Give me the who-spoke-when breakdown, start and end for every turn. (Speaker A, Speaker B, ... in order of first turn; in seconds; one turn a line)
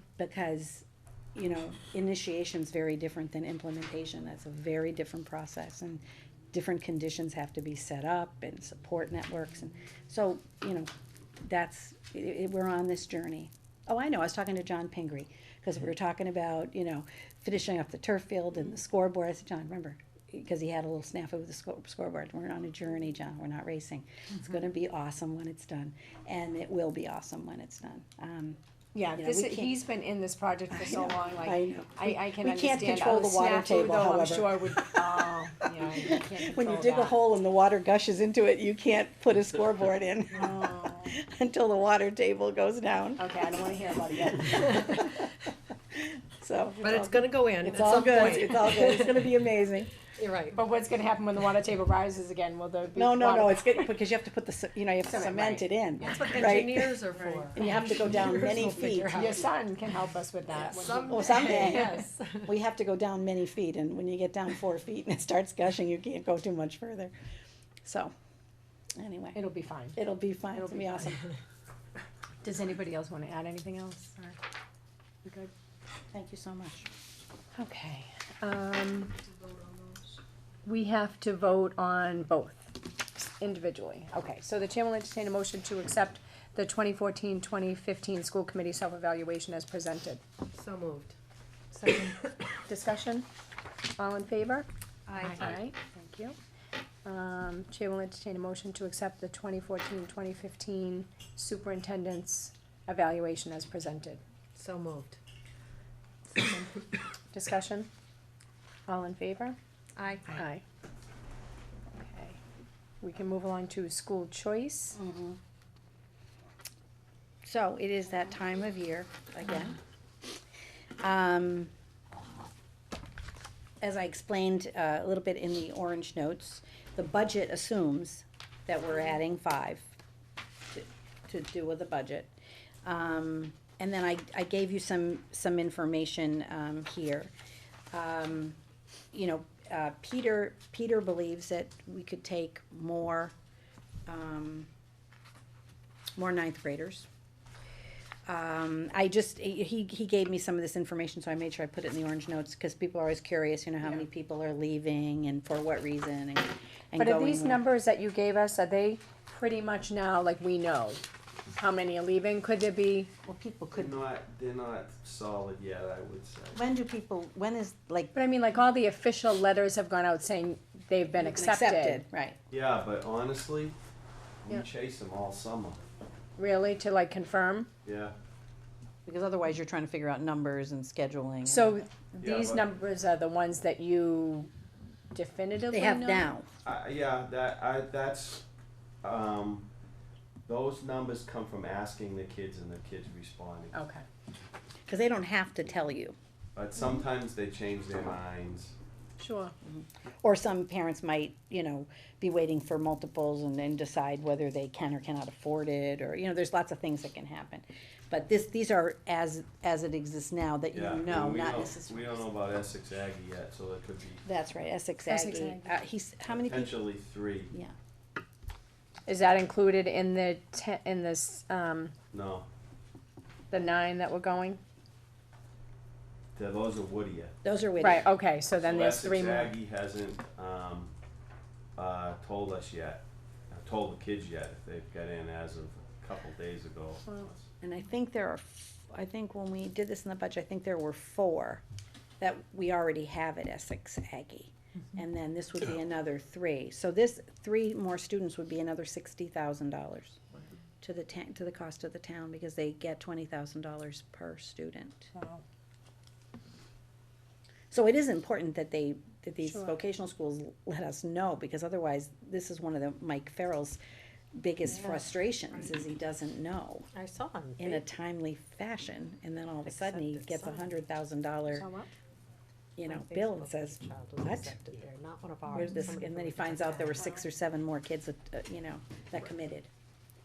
Speaker A: 0.2-10.9
Speaker A: 11.4-28.6
Speaker B: 28.9-37.2
Speaker A: 29.2-29.8
Speaker A: 30.7-35.3
Speaker A: 35.8-43.3
Speaker B: 43.2-45.2
Speaker A: 44.4-45.4
Speaker A: 45.9-49.9
Speaker C: 46.8-49.4
Speaker C: 50.2-50.6
Speaker B: 50.5-53.9
Speaker A: 53.0-57.0
Speaker B: 55.1-56.6
Speaker C: 56.0-59.5
Speaker B: 57.2-57.8
Speaker A: 57.5-59.3
Speaker B: 59.1-62.0
Speaker C: 60.5-62.5
Speaker A: 61.1-67.1
Speaker A: 67.8-68.1
Speaker A: 69.0-69.4
Speaker B: 69.3-70.0
Speaker A: 70.0-71.2
Speaker B: 70.5-71.2
Speaker B: 72.4-74.4
Speaker B: 75.2-75.5
Speaker A: 76.1-76.9
Speaker B: 77.5-79.2
Speaker B: 80.7-90.2
Speaker C: 90.5-91.2
Speaker C: 91.7-92.6
Speaker B: 92.7-93.3
Speaker B: 94.0-94.7
Speaker A: 95.1-95.5
Speaker B: 95.2-96.4
Speaker B: 97.0-104.2
Speaker C: 104.6-105.2
Speaker C: 106.3-106.7
Speaker B: 107.3-107.9
Speaker B: 108.9-109.6
Speaker C: 110.0-110.4
Speaker B: 110.3-110.6
Speaker B: 112.0-112.4
Speaker B: 113.0-115.0
Speaker A: 115.0-115.4
Speaker A: 117.4-119.8
Speaker A: 121.0-121.7
Speaker A: 123.8-129.9
Speaker A: 130.7-132.3
Speaker A: 132.8-137.3
Speaker A: 137.9-138.6
Speaker A: 139.1-143.3
Speaker A: 144.1-144.7
Speaker A: 146.2-147.1
Speaker A: 148.3-157.6
Speaker B: 157.0-161.0
Speaker B: 161.6-163.1
Speaker A: 163.2-163.9
Speaker D: 163.7-166.6
Speaker A: 166.6-168.1
Speaker B: 168.1-172.0
Speaker A: 171.2-172.4
Speaker D: 172.5-173.8
Speaker D: 174.4-175.8
Speaker B: 176.4-177.7
Speaker D: 177.8-178.2
Speaker A: 179.1-181.8
Speaker B: 181.4-184.5
Speaker D: 182.2-182.7
Speaker B: 185.1-186.3
Speaker A: 185.7-186.5
Speaker D: 186.6-188.4
Speaker D: 189.0-189.7
Speaker D: 190.5-193.8
Speaker B: 193.7-194.1
Speaker A: 194.9-196.2
Speaker D: 196.6-198.8
Speaker B: 199.2-199.5
Speaker A: 199.7-212.2
Speaker D: 210.7-214.2
Speaker A: 214.2-216.8
Speaker B: 215.1-215.7
Speaker D: 216.3-217.5
Speaker B: 219.1-221.9
Speaker D: 222.1-222.5
Speaker B: 223.5-224.6
Speaker D: 226.4-227.4
Speaker A: 227.4-228.1
Speaker B: 227.8-229.5
Speaker D: 228.6-230.9
Speaker D: 231.8-237.5
Speaker A: 237.6-241.6
Speaker A: 242.2-250.2
Speaker A: 250.8-255.1
Speaker B: 255.1-255.4
Speaker A: 257.7-263.8
Speaker B: 259.4-259.8
Speaker A: 264.4-266.9
Speaker C: 266.9-267.8
Speaker A: 267.6-271.7
Speaker C: 269.7-270.5
Speaker B: 271.5-271.9
Speaker A: 272.8-274.6
Speaker C: 272.9-277.0
Speaker A: 275.5-279.7